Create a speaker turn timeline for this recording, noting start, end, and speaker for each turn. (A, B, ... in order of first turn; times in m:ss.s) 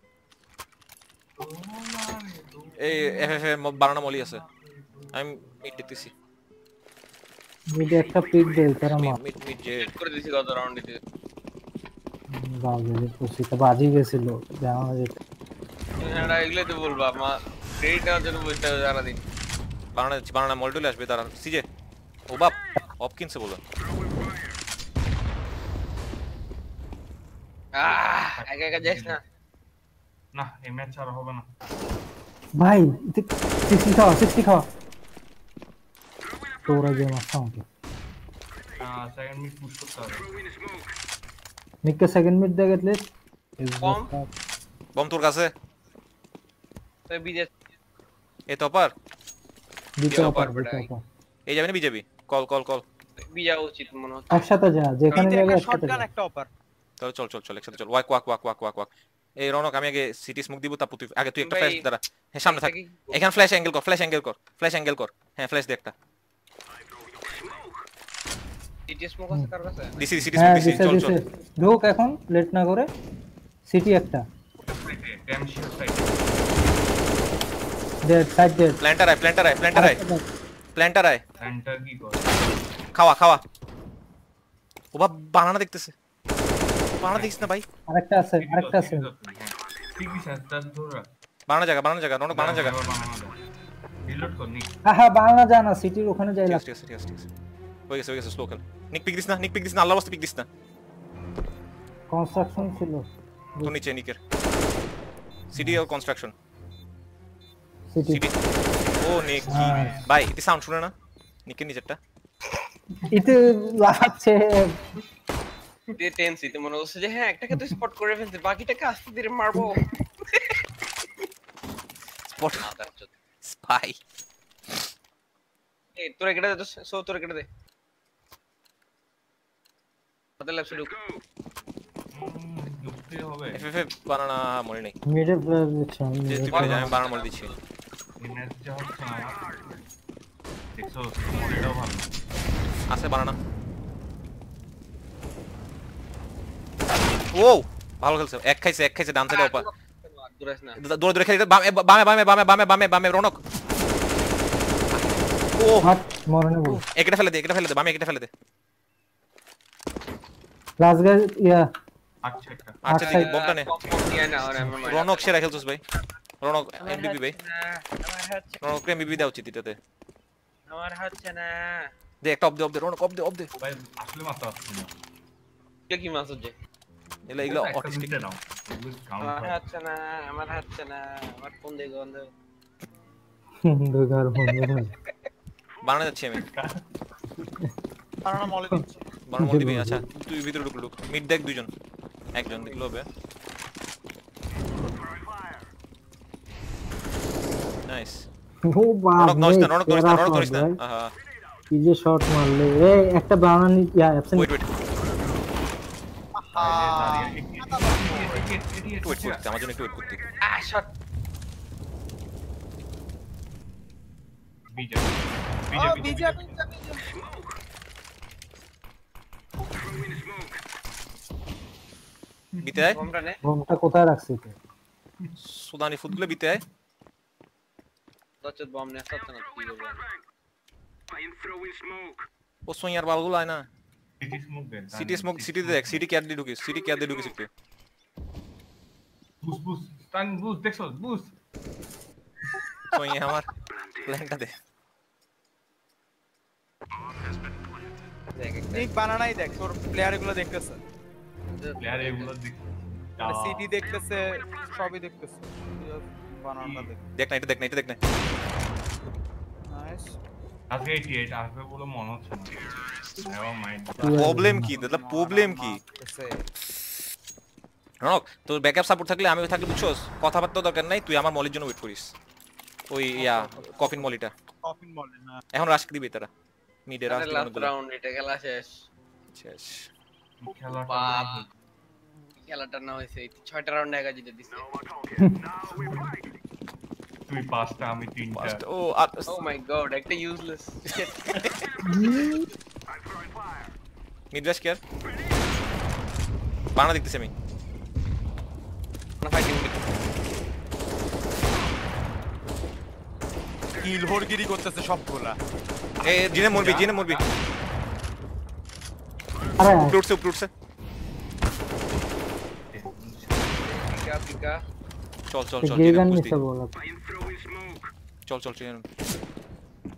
0:01.4-0:06.1 A
0:02.8-0:04.4 B
0:05.1-0:06.1 B
0:07.7-0:09.2 C
0:09.0-0:09.9 B
0:09.8-0:11.0 D
0:12.3-0:15.2 C
0:16.0-0:19.2 D
0:19.9-0:21.6 B
0:22.3-0:23.6 B
0:27.7-0:29.2 D
0:28.4-0:29.2 A
0:30.3-0:31.4 A
0:32.6-0:34.7 C
0:36.7-0:37.6 C
0:38.8-0:40.3 A
0:41.8-0:43.1 C
0:43.6-0:44.3 C
0:43.8-0:44.1 D
0:44.9-0:45.5 B
0:47.1-0:47.5 D
0:48.5-0:48.9 B
0:50.0-0:51.0 C
0:50.1-0:50.9 D
0:51.4-0:52.8 B
0:53.2-0:54.5 D
0:54.3-0:56.0 C
0:55.1-0:55.5 D
0:55.1-0:56.5 E
0:57.0-1:05.9 B
1:01.4-1:01.8 D
1:02.4-1:03.2 D
1:08.9-1:10.0 D
1:10.0-1:11.2 B
1:10.2-1:10.6 A
1:10.4-1:12.9 C
1:13.7-1:14.2 C
1:14.6-1:16.2 A
1:18.0-1:18.8 C
1:18.8-1:20.0 B
1:19.7-1:20.2 C
1:20.8-1:21.2 B
1:21.4-1:22.6 A
1:22.9-1:23.4 B
1:24.9-1:25.9 B
1:27.0-1:27.6 B
1:27.1-1:27.5 A
1:27.9-1:29.1 C
1:28.4-1:31.0 A
1:31.5-1:32.8 B
1:32.3-1:33.4 A
1:34.0-1:34.7 A
1:34.9-1:36.6 C
1:36.5-1:37.3 B
1:37.9-1:40.5 B
1:42.1-1:43.7 C
1:42.4-1:42.9 A
1:43.6-1:44.2 B
1:45.5-1:46.3 B
1:47.9-1:48.2 C
1:48.1-1:48.3 B
1:49.0-1:50.9 B
1:49.5-1:50.0 C
1:51.4-1:52.0 B
1:53.0-1:54.8 C
1:55.9-2:00.5 D
1:59.5-1:59.8 C
2:02.3-2:02.7 B
2:02.6-2:03.1 D
2:03.4-2:04.0 B
2:06.0-2:07.4 D
2:10.4-2:10.9 D
2:12.1-2:13.6 A
2:13.5-2:15.0 B
2:15.1-2:17.0 C
2:16.3-2:17.5 B
2:16.5-2:17.5 D
2:18.2-2:19.5 A
2:20.7-2:22.2 A
2:22.9-2:23.4 B
2:27.3-2:29.7 B
2:29.3-2:30.8 D
2:30.8-2:33.4 B
2:34.9-2:35.9 B
2:35.8-2:36.8 C
2:36.6-2:38.3 B
2:40.8-2:41.7 C
2:42.2-2:42.8 A
2:42.8-2:43.7 B
2:42.9-2:43.3 C
2:43.0-2:45.4 D
2:44.1-2:44.7 A
2:44.7-2:45.8 B
2:46.4-2:47.4 B
2:46.8-2:48.6 D
2:48.6-2:49.8 B
2:50.7-2:51.9 D
2:52.2-2:53.5 B
2:53.6-2:55.0 A
2:55.9-2:56.5 D
2:57.3-2:58.1 B
2:57.4-2:59.6 A
2:59.2-3:02.3 D
3:03.6-3:04.9 C
3:04.4-3:05.1 D
3:05.8-3:06.4 B
3:06.3-3:06.8 A
3:08.2-3:09.0 E
3:09.3-3:11.7 B
3:09.4-3:10.0 C
3:12.3-3:13.1 B
3:17.9-3:18.2 B
3:18.6-3:20.8 C
3:19.2-3:21.1 B
3:21.7-3:24.5 C
3:24.3-3:24.7 B
3:26.4-3:28.5 E
3:26.6-3:29.4 A
3:29.0-3:30.2 B
3:30.4-3:30.9 D
3:34.7-3:36.6 A
3:35.7-3:37.1 E
3:42.5-3:43.0 A
3:42.6-3:43.0 B
3:42.9-3:43.4 D
3:43.4-3:44.5 C
3:45.4-3:46.6 B
3:48.4-3:50.0 D
3:52.7-3:53.7 B
3:54.2-3:56.0 A
3:54.9-3:57.5 B
3:59.4-4:01.3 A
4:02.9-4:03.5 B
4:04.0-4:04.6 B
4:08.3-4:08.9 D
4:08.7-4:10.8 E
4:11.5-4:12.3 D
4:11.8-4:13.7 A
4:13.2-4:17.0 E
4:16.6-4:16.9 A
4:17.2-4:18.0 B
4:19.7-4:20.1 E
4:20.7-4:22.6 A
4:23.2-4:24.2 A
4:24.0-4:26.4 E
4:24.0-4:24.7 C
4:24.1-4:25.8 B
4:28.0-4:32.1 B
4:32.9-4:34.3 B
4:33.1-4:34.1 E
4:34.6-4:35.4 E
4:35.5-4:36.3 B
4:36.9-4:37.7 B
4:37.0-4:38.8 D
4:39.3-4:39.9 B
4:40.4-4:41.5 A
4:40.9-4:41.4 D
4:42.5-4:44.7 D
4:45.2-4:46.0 C
4:47.3-4:48.6 A
4:48.3-4:49.4 B
4:49.3-4:51.4 D
4:51.2-4:51.6 B
4:51.8-4:52.5 C
4:54.3-4:54.8 B
4:56.7-4:57.3 B
4:59.2-4:59.8 D
5:03.8-5:05.4 E
5:06.0-5:07.2 B
5:06.0-5:07.2 A
5:09.6-5:10.0 C
5:09.8-5:10.5 B
5:12.7-5:13.7 A
5:13.6-5:14.6 D
5:15.3-5:16.4 B
5:15.6-5:16.7 C
5:18.3-5:18.8 B